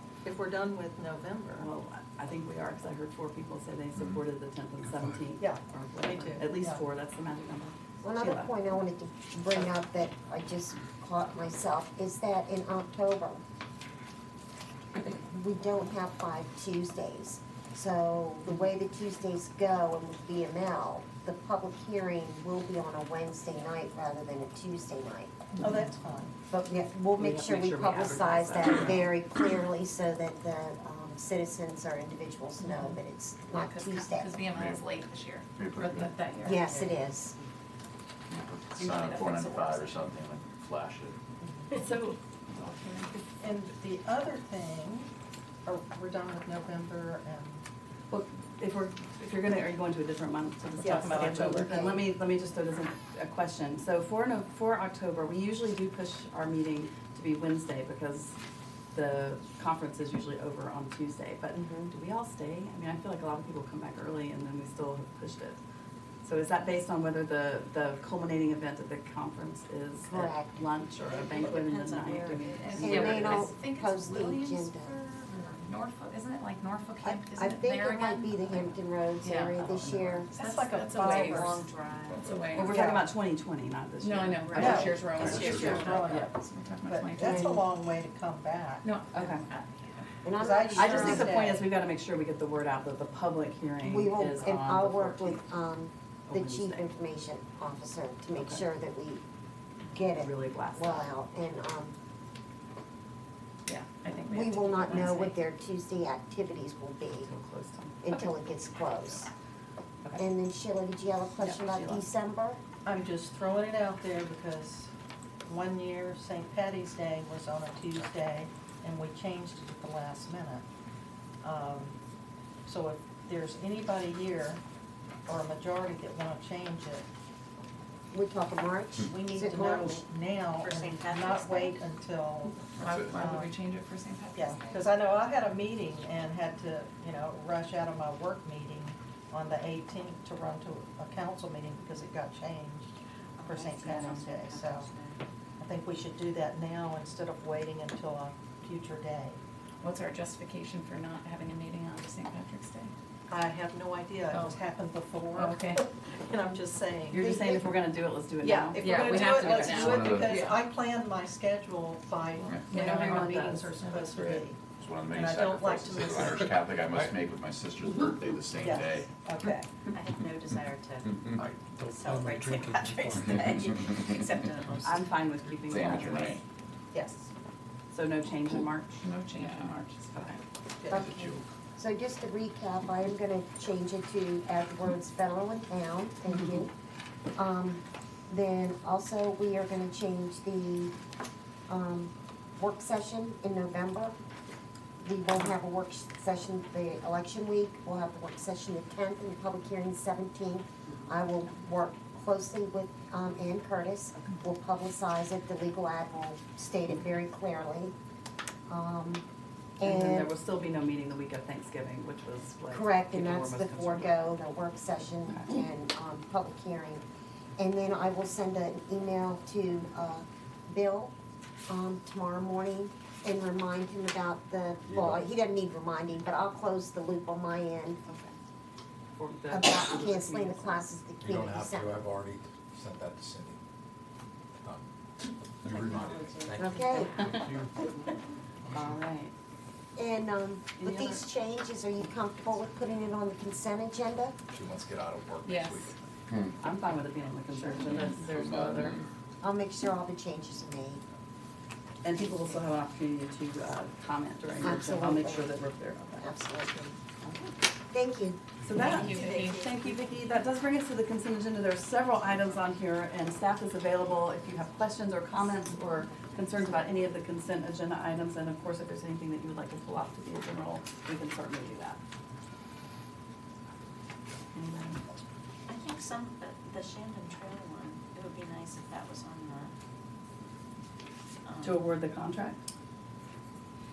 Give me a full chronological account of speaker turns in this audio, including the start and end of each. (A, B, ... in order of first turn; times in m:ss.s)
0:00.2-0:01.7 A
0:01.6-0:08.5 B
0:04.8-0:05.3 C
0:05.4-0:06.8 A
0:08.0-0:13.4 D
0:15.0-0:25.3 D
0:25.6-0:26.4 A
0:26.5-0:34.4 D
0:27.2-0:29.1 B
0:33.5-0:36.7 E
0:34.5-0:34.8 F
0:35.6-0:36.1 F
0:36.4-0:37.4 D
0:36.5-0:37.5 G
0:38.3-0:41.2 F
0:38.7-0:40.0 E
0:41.7-0:43.1 E
0:41.8-0:42.2 B
0:43.4-0:45.1 A
0:45.6-0:47.7 A
0:48.1-0:58.4 B
0:50.8-0:51.7 A
0:50.8-0:51.6 E
0:51.5-0:52.1 D
0:58.9-1:05.6 B
1:01.5-1:01.9 D
1:06.2-1:13.5 B
1:10.1-1:10.6 D
1:11.1-1:12.2 G
1:11.9-1:22.8 E
1:12.8-1:15.0 D
1:17.0-1:20.3 D
1:20.5-1:21.6 A
1:21.0-1:22.3 G
1:22.1-1:22.4 F
1:22.5-1:25.0 B
1:22.6-1:23.1 A
1:24.0-1:27.6 E
1:24.5-1:24.8 G
1:24.6-1:28.9 A
1:25.1-1:26.0 C
1:25.6-1:26.3 B
1:27.3-1:27.6 D
1:28.8-1:30.1 E
1:29.1-1:29.5 B
1:30.2-1:31.4 D
1:30.4-1:31.6 A
1:30.8-1:35.4 B
1:33.8-1:39.2 D
1:36.3-1:36.9 B
1:38.4-1:38.7 B
1:39.9-1:41.9 D
1:40.0-1:41.1 B
1:43.7-1:45.4 E
1:44.2-1:47.3 D
1:47.2-1:48.2 B
1:48.0-1:49.3 D
1:50.0-1:50.3 B
1:50.2-1:52.6 D
1:51.4-1:52.1 B
1:52.8-1:54.9 A
1:55.5-2:00.7 A
2:01.4-2:02.0 A
2:02.6-2:04.6 A
2:05.3-2:07.1 A
2:08.1-2:10.0 D
2:09.1-2:12.7 A
2:10.6-2:11.8 G
2:12.8-2:13.3 F
2:12.8-2:14.8 E
2:13.2-2:13.5 A
2:14.3-2:24.9 A
2:23.4-2:25.2 G
2:25.6-2:29.4 A
2:29.8-2:32.9 E
2:33.3-2:37.3 A
2:34.3-2:34.6 E
2:35.4-2:35.8 E
2:37.1-2:39.7 B
2:37.2-2:37.6 D
2:38.4-2:46.6 A
2:38.8-2:40.6 E
2:39.8-2:40.3 F
2:42.6-2:44.4 E
2:42.7-2:43.6 B
2:44.8-2:49.1 F
2:46.9-2:47.2 C
2:48.6-2:49.7 A
2:49.9-2:51.3 G
2:51.4-2:53.8 C
2:51.8-2:55.1 G
2:54.8-2:56.4 B
2:55.7-2:56.4 F
2:56.9-2:57.3 A
2:57.9-2:59.4 B
2:59.0-3:00.3 E
2:59.4-2:59.7 F
3:00.8-3:01.1 A
3:00.9-3:01.4 F
3:00.9-3:06.7 D
3:07.4-3:10.9 D
3:11.7-3:14.2 D
3:15.0-3:28.0 D
3:28.7-3:29.2 D
3:29.8-3:30.3 D
3:29.8-3:34.4 B
3:32.7-3:37.0 D
3:37.6-3:41.1 D
3:41.7-3:48.0 D
3:44.9-3:45.2 C
3:48.1-3:48.3 B
3:49.2-3:50.9 B
3:49.5-3:52.1 D
3:51.2-3:53.6 C
3:55.6-3:57.8 C
3:55.7-3:57.4 D
3:58.6-3:59.0 C
3:58.7-3:59.3 B
4:00.0-4:04.4 D
4:00.8-4:01.2 B
4:04.5-4:06.2 C
4:05.4-4:05.9 E
4:06.6-4:09.0 B
4:07.7-4:09.1 F
4:09.4-4:11.0 D
4:12.0-4:16.3 B
4:12.2-4:12.6 D
4:14.6-4:15.6 D
4:16.2-4:17.0 D
4:17.2-4:17.5 B
4:17.9-4:18.4 D
4:18.6-4:32.0 B
4:18.8-4:19.7 E
4:19.0-4:20.1 G
4:34.5-4:35.0 B
4:35.7-4:39.7 G
4:41.4-4:41.8 G
4:41.6-4:42.6 B